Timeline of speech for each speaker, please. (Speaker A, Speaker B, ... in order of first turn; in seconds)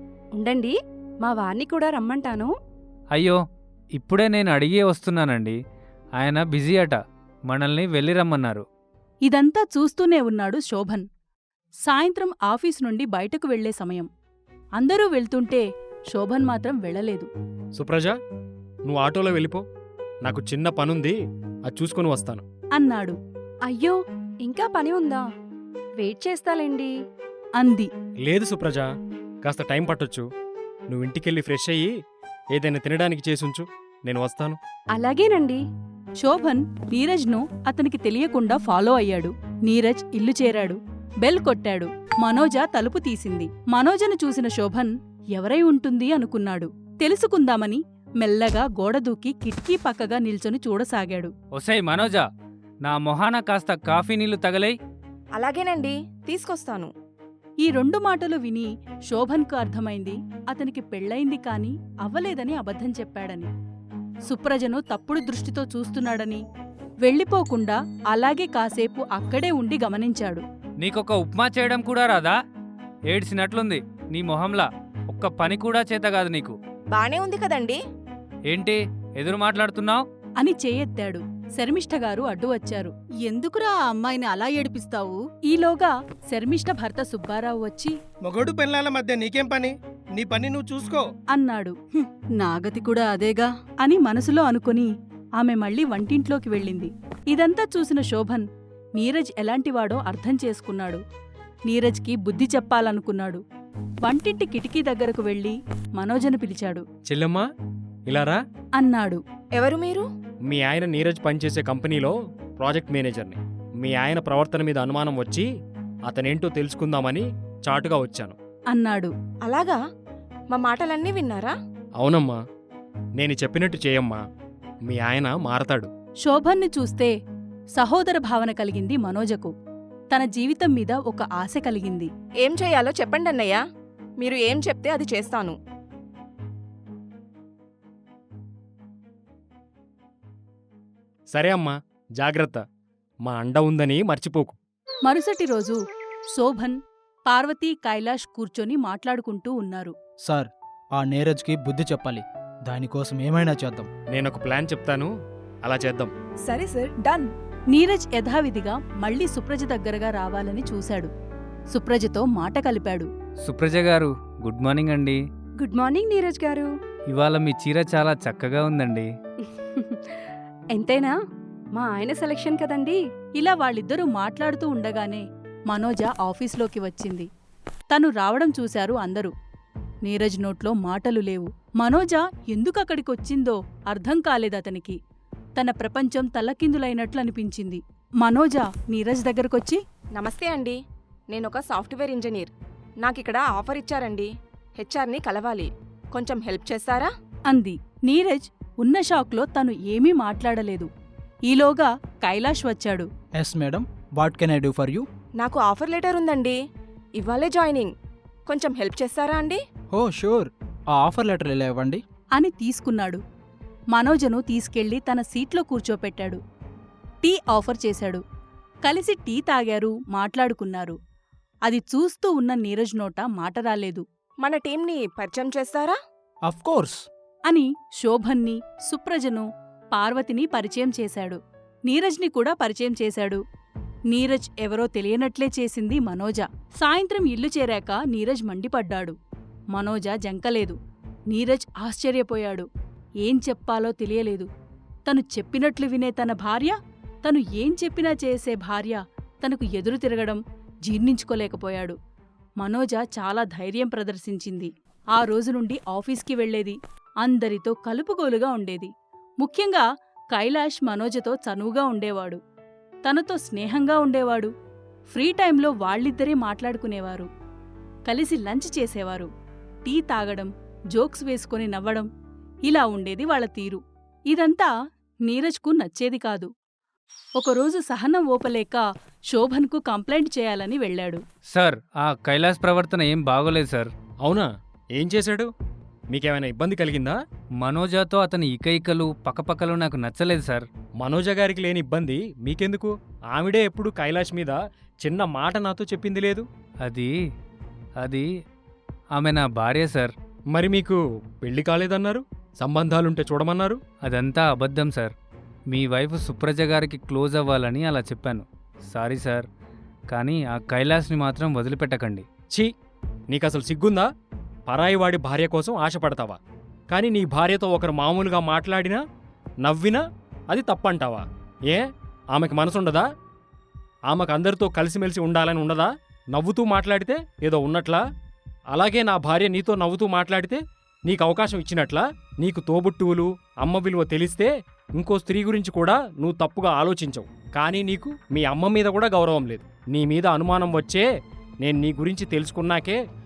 Speaker A: 0.4-2.5, 23.7-25.2, 26.0-26.9, 34.9-35.6, 165.6-166.7, 169.4-171.1, 171.8-173.0
Speaker B: 3.1-3.4, 4.0-5.6, 6.2-8.6, 51.5-52.2, 52.8-54.8, 70.8-72.4, 73.1-76.6, 78.5-80.0, 163.4-165.2, 167.1-169.1, 281.5-283.9, 287.6-290.6, 296.8-297.1, 298.0-298.2, 299.1-300.1, 304.0-305.1, 305.7-309.4, 310.1-312.2
Speaker C: 9.2-11.1, 11.8-14.1, 14.8-17.3, 22.8-23.2, 27.6-27.9, 36.2-51.3, 57.6-63.5, 64.3-66.4, 67.0-70.4, 80.4-87.9, 91.3-101.0, 101.7-103.4, 104.0-106.8, 108.8-109.2, 118.7-119.1, 126.2-127.1, 127.8-129.5, 130.1-132.1, 145.0-145.8, 146.3-149.9, 157.7-161.1, 161.7-163.1, 173.4-177.3, 177.9-179.3, 180.0-185.0, 185.6-189.8, 197.5-200.9, 201.5-203.1, 212.4-213.2, 213.9-216.4, 217.2-218.2, 218.8-220.9, 221.7-224.0, 227.5-233.4, 234.1-239.2, 239.7-240.8, 241.3-242.7, 243.2-244.5, 245.1-251.9, 252.6-262.4, 263.0-264.5, 265.1-267.3, 268.1-269.3, 269.8-272.1, 272.6-274.7, 275.3-276.5, 277.4-281.2
Speaker D: 17.8-18.1, 18.9-19.6, 20.2-21.1, 21.7-22.4, 28.2-28.9, 29.4-30.2, 30.9-31.9, 32.5-34.6, 107.0-107.5, 108.1-108.4, 110.5-115.5, 116.0-118.3, 122.0-122.4, 123.2-124.2, 124.9-125.9, 141.3-142.6, 143.2-144.6, 154.1-155.1, 155.6-156.1, 284.2-285.5, 286.1-287.2, 291.0-296.4, 300.5-303.8, 313.3-314.1, 314.7-316.4, 316.9-319.0, 319.6-323.0, 324.1-328.0, 328.7-341.1, 341.6-343.0
Speaker E: 55.4-56.9, 76.9-77.8, 109.5-110.1, 119.4-119.8, 120.5-121.5, 132.4-133.6, 134.2-135.6, 156.4-157.3, 190.1-190.8, 191.3-197.1, 205.4-206.6, 207.2-207.9, 208.5-209.6, 224.4-226.0
Speaker F: 88.2-91.1
Speaker G: 150.2-153.9, 203.4-205.1, 209.9-212.0, 226.5-227.1